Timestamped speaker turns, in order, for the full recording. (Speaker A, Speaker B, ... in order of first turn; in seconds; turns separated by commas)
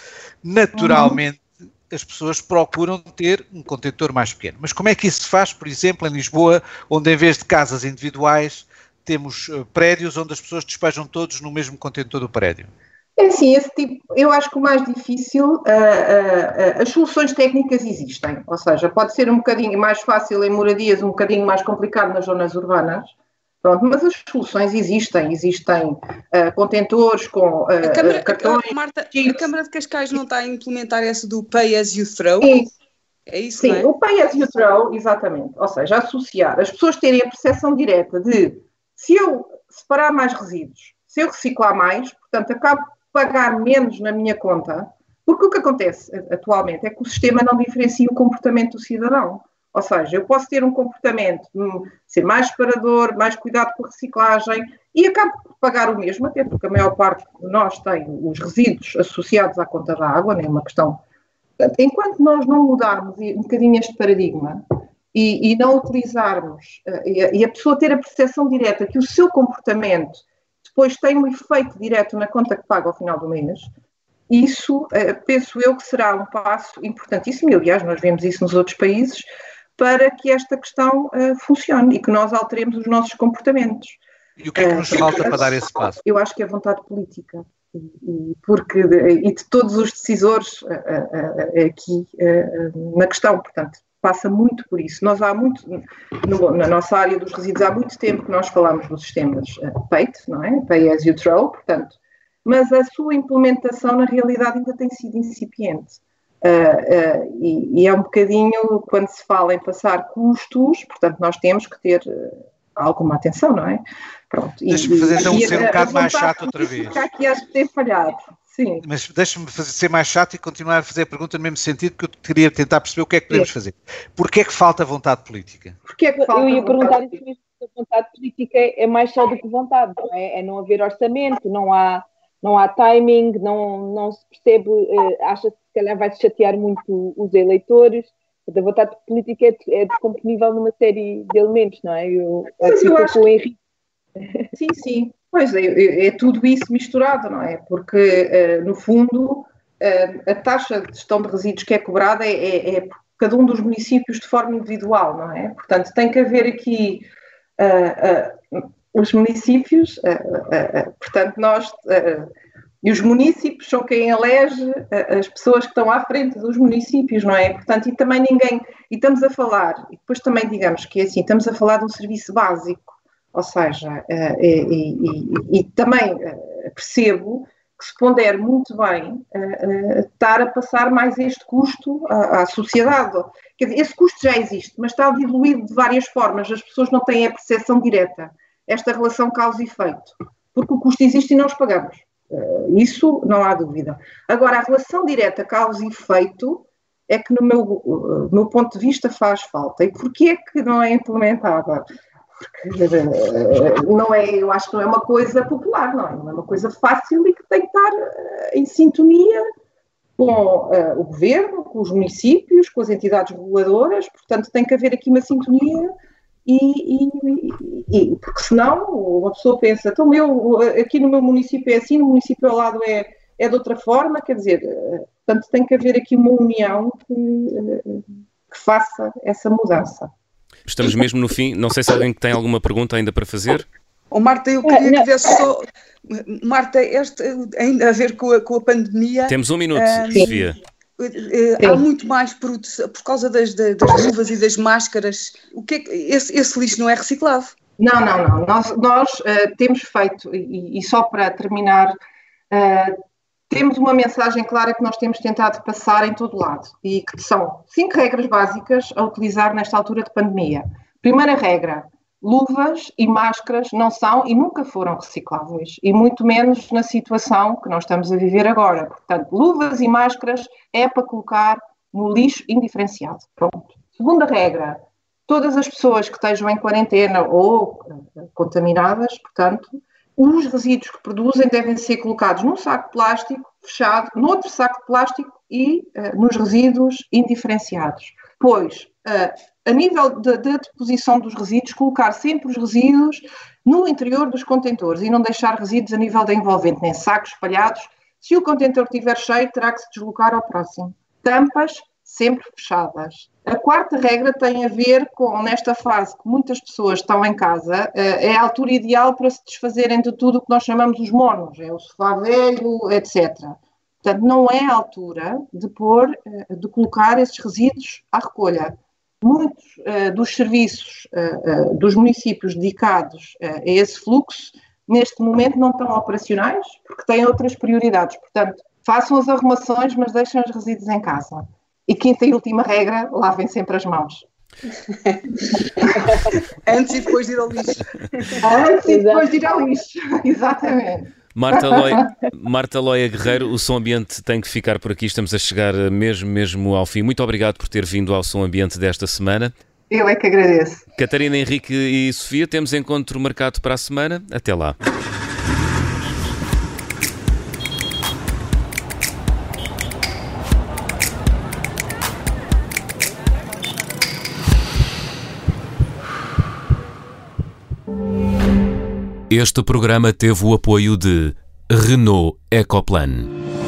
Speaker A: 0.4-12.7, Speaker B: 0.7-1.2, Speaker B: 13.2-29.4, Speaker C: 27.8-32.6, Speaker B: 32.4-32.7, Speaker C: 33.3-33.9, Speaker B: 33.6-61.0, Speaker B: 61.6-73.7, Speaker B: 74.3-84.0, Speaker A: 84.4-86.0, Speaker B: 84.6-118.8, Speaker A: 114.7-117.0, Speaker A: 118.8-125.8, Speaker B: 125.8-127.0, Speaker D: 126.2-143.6, Speaker B: 142.6-143.2, Speaker B: 144.6-157.1, Speaker B: 157.6-162.3, Speaker B: 162.8-201.8, Speaker B: 202.4-209.4, Speaker B: 210.2-215.9, Speaker B: 216.4-230.1, Speaker E: 230.7-233.7, Speaker C: 234.1-240.4, Speaker D: 234.7-235.1, Speaker E: 239.3-240.6, Speaker C: 241.0-247.5, Speaker B: 247.8-252.0, Speaker B: 252.5-253.0, Speaker B: 253.5-334.2, Speaker C: 334.9-335.2, Speaker C: 336.6-338.4, Speaker B: 338.4-342.1, Speaker D: 338.8-339.3, Speaker E: 341.3-349.5, Speaker B: 349.9-350.8, Speaker E: 351.0-354.8, Speaker E: 369.3-373.3